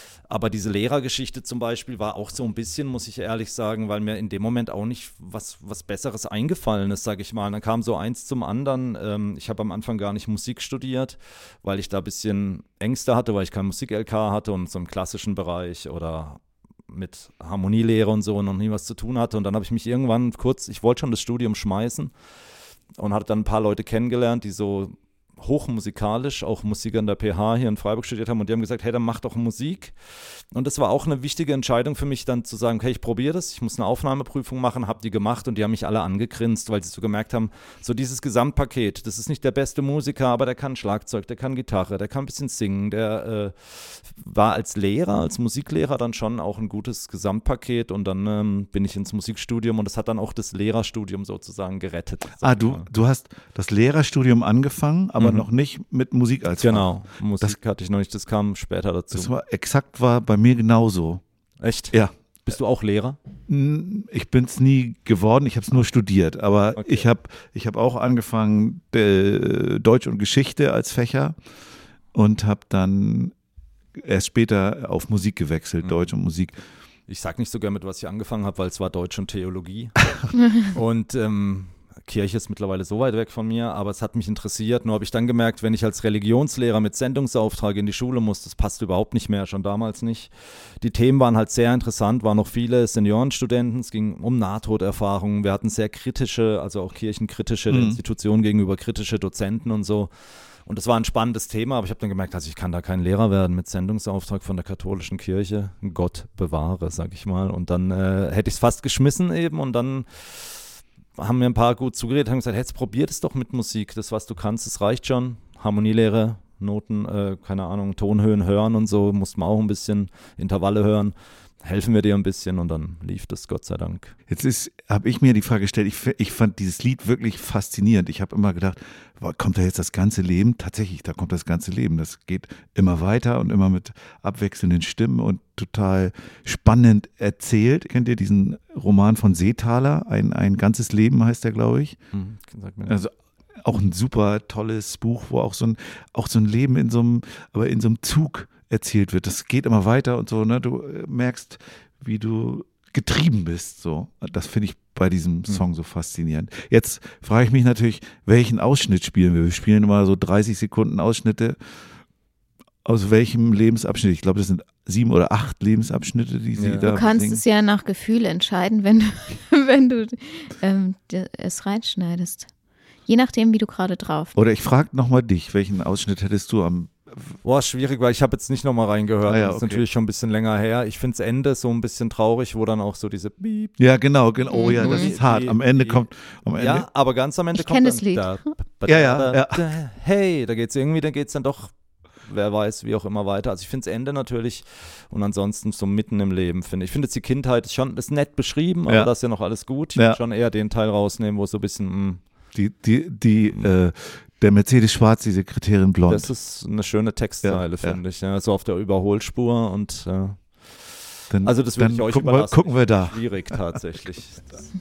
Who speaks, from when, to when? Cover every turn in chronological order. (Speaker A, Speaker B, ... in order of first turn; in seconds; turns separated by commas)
Speaker A: 0.3-22.1, Speaker A: 22.9-52.9, Speaker B: 52.4-57.6, Speaker A: 55.2-55.5, Speaker A: 56.6-59.3, Speaker B: 59.1-61.2, Speaker A: 61.6-63.2, Speaker B: 61.9-62.6, Speaker B: 63.5-71.4, Speaker A: 66.8-67.1, Speaker B: 72.1-73.3, Speaker B: 74.0-76.6, Speaker A: 77.1-100.1, Speaker B: 97.7-98.0, Speaker A: 100.7-124.1, Speaker B: 124.3-142.0, Speaker A: 142.1-143.0, Speaker B: 142.9-161.6, Speaker B: 162.8-167.4, Speaker A: 166.6-166.9, Speaker C: 166.9-172.5, Speaker C: 173.1-174.4, Speaker B: 174.3-177.3, Speaker A: 177.4-183.8, Speaker B: 179.2-179.8, Speaker B: 183.8-186.9, Speaker C: 184.5-185.1, Speaker A: 184.6-191.7, Speaker C: 187.6-188.5, Speaker B: 188.9-189.7, Speaker A: 192.2-202.2, Speaker B: 202.5-206.3, Speaker A: 206.1-214.7, Speaker B: 207.4-208.0, Speaker B: 211.3-213.8